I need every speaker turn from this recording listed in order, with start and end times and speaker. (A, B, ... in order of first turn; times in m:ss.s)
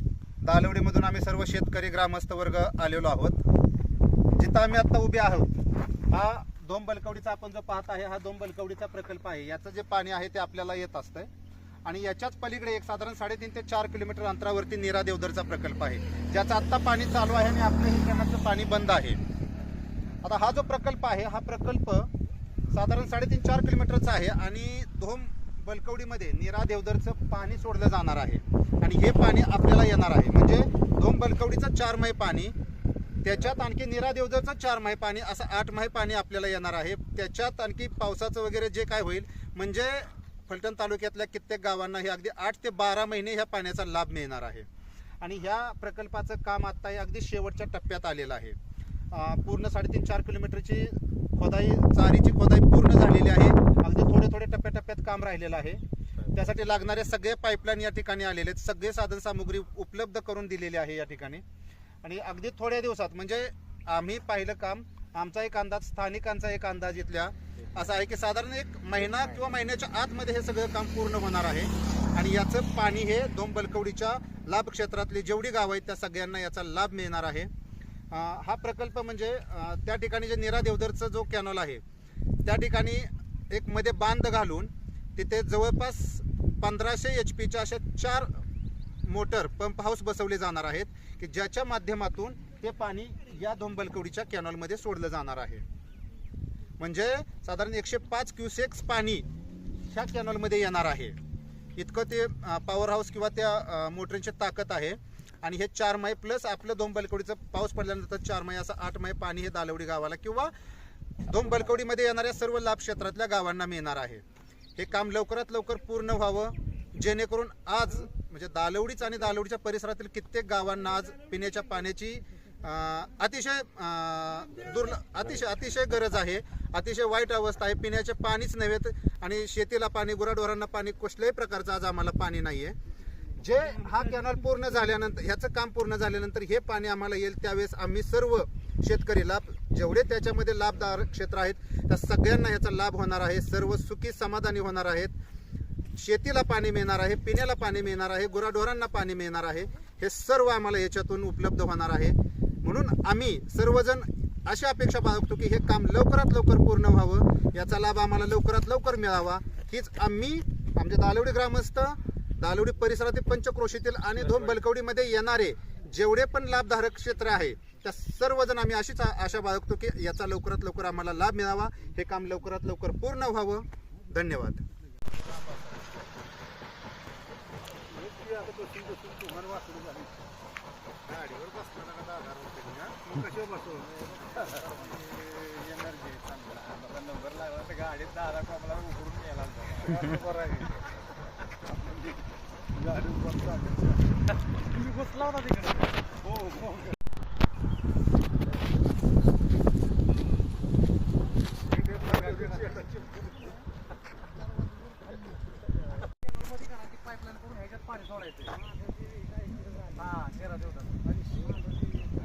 0:00.4-0:03.4 A
0:04.3-0:05.5 A
0:06.1-0:11.3 A
0:11.8-0:19.2 A
0:20.2-0:22.1 A
0:22.7-0:32.5 A
0:33.2-0:44.7 A
0:45.2-0:48.6 A
0:49.1-0:55.8 A
0:56.3-1:01.4 A
1:02.0-1:17.5 A
1:18.1-1:21.8 A
1:22.4-1:28.3 A
1:29.0-1:35.6 A
1:36.8-1:39.2 A
1:39.9-1:41.2 A
1:41.8-1:50.5 A
1:51.2-1:54.2 A
1:54.8-2:12.8 A
2:13.4-2:25.1 A
2:26.0-2:54.6 A
2:55.2-2:55.8 A
2:58.0-3:00.1 B
2:58.3-2:59.8 A
3:01.1-3:03.0 A
3:03.3-3:10.8 B
3:05.8-3:06.2 A
3:12.9-3:13.8 B
3:14.7-3:15.9 C
3:16.2-3:16.7 B
3:26.7-3:28.5 C
3:30.0-3:30.9 C